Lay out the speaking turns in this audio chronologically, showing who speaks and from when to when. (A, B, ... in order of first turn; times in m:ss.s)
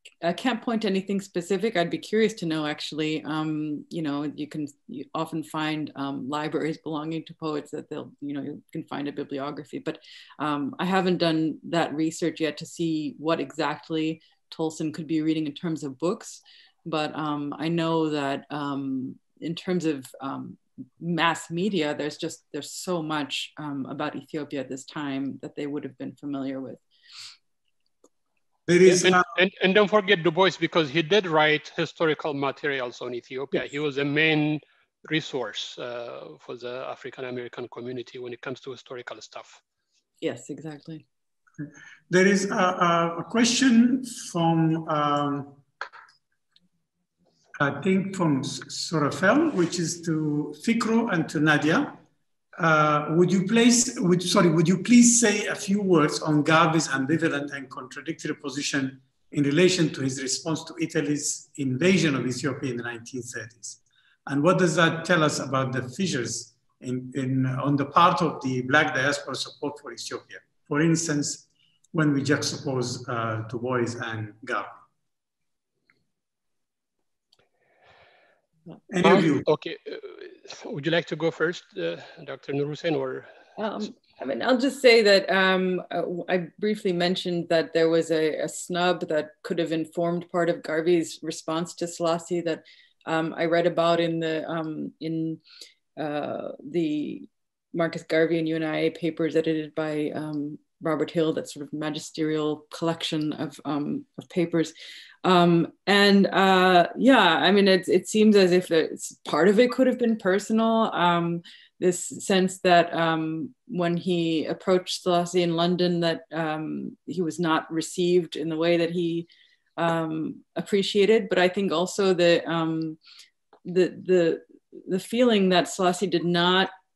0:00.2-0:26.8 A
0:28.7-0:29.3 B
0:28.8-0:39.6 C
0:40.2-0:41.0 A
0:42.1-0:45.6 B
0:47.6-0:52.0 B
0:52.6-1:14.8 B
1:18.9-1:19.5 B
1:19.0-1:23.3 C
1:23.6-1:35.4 A
1:36.0-2:03.0 A
2:03.6-2:06.7 A